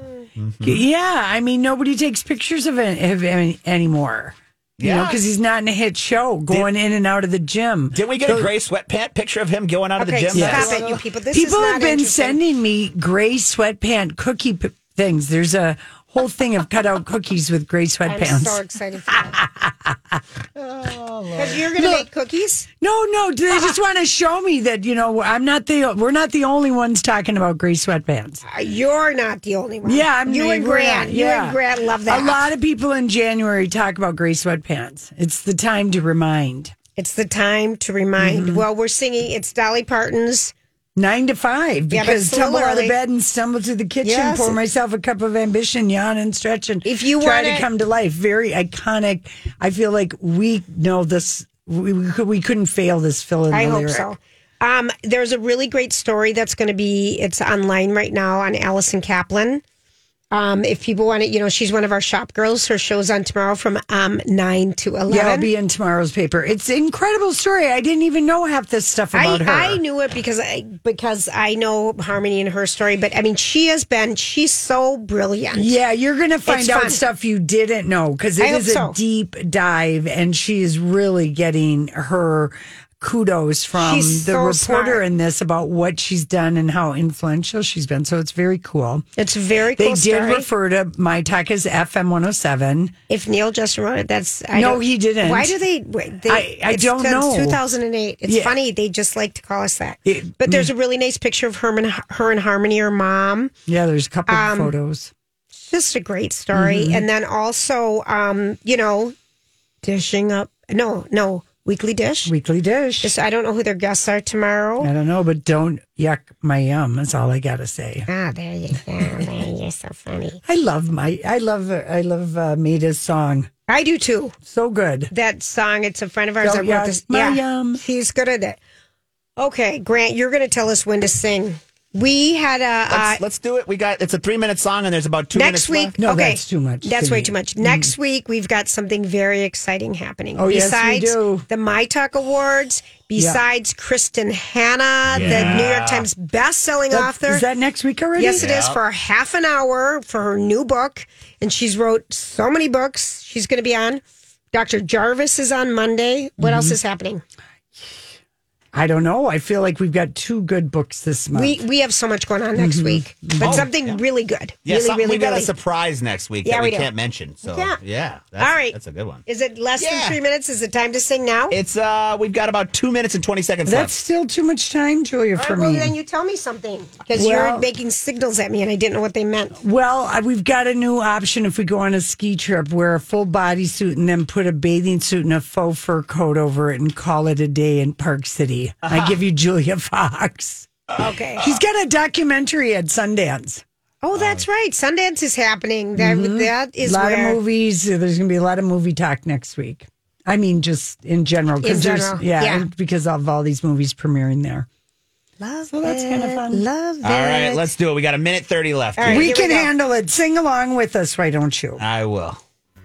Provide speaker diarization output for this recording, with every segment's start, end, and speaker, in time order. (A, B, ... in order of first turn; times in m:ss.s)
0:00.4-0:00.8 A
0:00.6-0:08.5 B
0:04.8-0:05.2 A
0:07.9-0:11.0 A
0:10.0-0:12.4 C
0:10.3-0:18.6 B
0:18.0-0:19.4 C
0:19.1-0:20.2 B
0:20.6-0:21.6 A
0:21.4-0:22.7 C
0:21.7-0:22.0 B
0:22.8-0:28.4 B
0:28.4-0:32.4 C
0:29.8-0:36.7 B
0:37.0-0:40.5 C
0:38.2-0:38.6 B
0:41.0-0:54.1 B
0:41.9-0:43.0 C
0:44.0-0:44.6 C
0:46.8-0:47.7 C
0:53.5-0:59.6 C
1:00.3-1:05.5 C
1:05.1-1:09.8 B
1:09.1-1:15.7 C
1:15.5-1:29.0 B
1:16.4-1:17.0 C
1:18.4-1:19.0 C
1:23.8-1:25.0 C
1:29.2-1:30.5 C
1:29.8-1:32.9 B
1:33.1-1:43.5 C
1:34.5-1:35.6 B
1:36.3-1:37.6 B
1:38.3-1:38.6 B
1:40.0-1:40.7 B
1:43.7-1:45.1 B
1:44.3-1:44.7 C
1:45.5-1:49.1 C
1:46.5-1:47.0 B
1:49.8-1:52.3 C
1:52.2-1:53.1 B
1:53.0-1:54.9 C
1:54.8-1:58.1 B
1:58.1-2:00.4 C
2:00.4-2:03.5 B
2:03.7-2:04.4 C
2:04.4-2:05.1 B
2:05.1-2:08.6 C
2:06.4-2:07.8 B
2:09.4-2:13.2 C
2:12.9-2:16.0 A
2:15.3-2:27.4 C
2:16.0-2:17.9 B
2:20.4-2:21.4 B
2:25.1-2:26.1 A
2:25.2-2:25.7 B
2:26.9-2:28.4 B
2:28.2-2:34.0 C
2:28.4-2:28.8 A
2:34.5-2:37.2 C
2:36.4-2:36.7 B
2:38.7-2:41.6 B
2:41.3-2:45.5 C
2:42.6-2:43.6 B
2:43.4-2:44.0 A
2:44.6-2:49.2 A
2:46.4-2:46.9 C
2:47.4-2:47.8 C
2:48.4-2:48.7 C
2:49.2-2:51.6 C
2:49.8-2:50.2 A
2:51.5-2:53.9 A
2:53.6-2:55.9 B
2:55.4-2:59.6 C
2:57.1-2:57.6 B
2:59.6-3:10.7 B
3:11.0-3:11.5 C
3:11.4-3:13.6 B
3:14.0-3:17.4 C
3:14.1-3:14.4 A
3:16.0-3:24.7 B
3:21.6-3:22.7 C
3:25.4-3:27.6 C
3:25.7-3:26.6 B
3:27.0-3:29.3 A
3:29.0-3:29.7 C
3:29.1-3:31.8 B
3:31.8-3:32.4 A